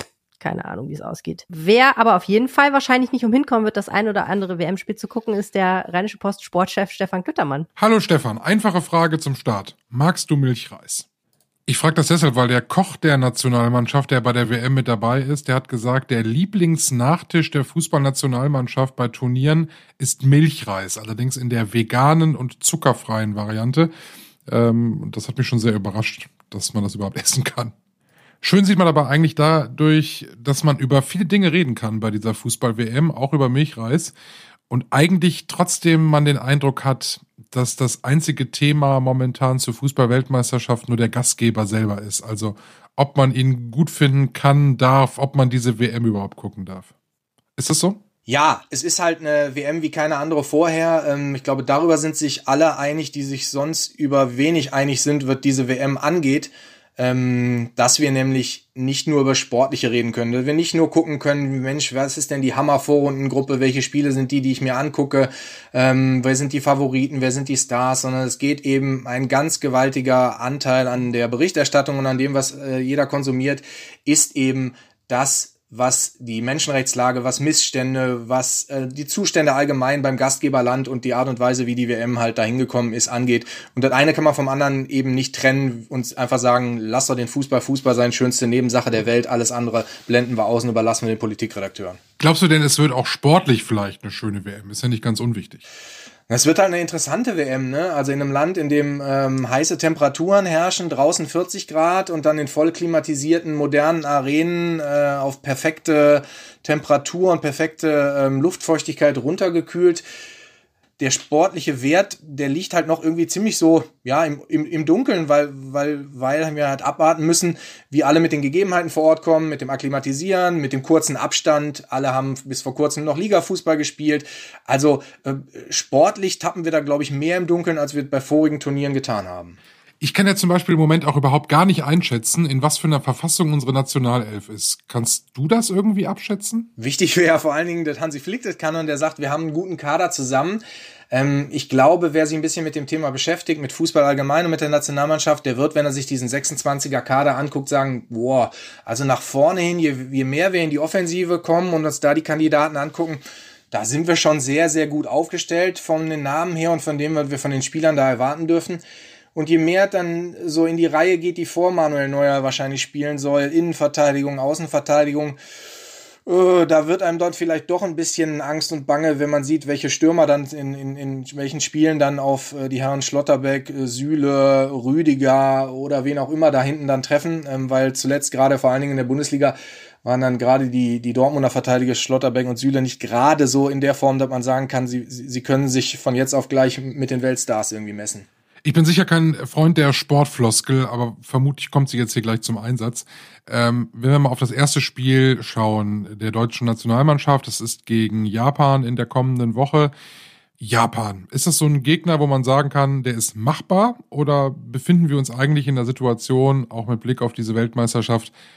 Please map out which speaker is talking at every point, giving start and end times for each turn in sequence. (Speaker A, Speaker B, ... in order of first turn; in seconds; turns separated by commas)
Speaker A: 0.4-7.7, Speaker B: 7.8-11.1, Speaker B: 11.7-23.9, Speaker B: 24.5-27.7, Speaker B: 28.4-34.1, Speaker B: 34.7-46.9, Speaker B: 47.6-48.0, Speaker C: 48.3-92.0, Speaker B: 92.2-95.6, Speaker C: 96.3-110.0, Speaker C: 111.0-129.6, Speaker B: 130.0-136.7, Speaker C: 136.8-158.8, Speaker C: 159.3-165.4, Speaker C: 166.3-188.3, Speaker B: 188.6-199.9, Speaker B: 200.6-208.3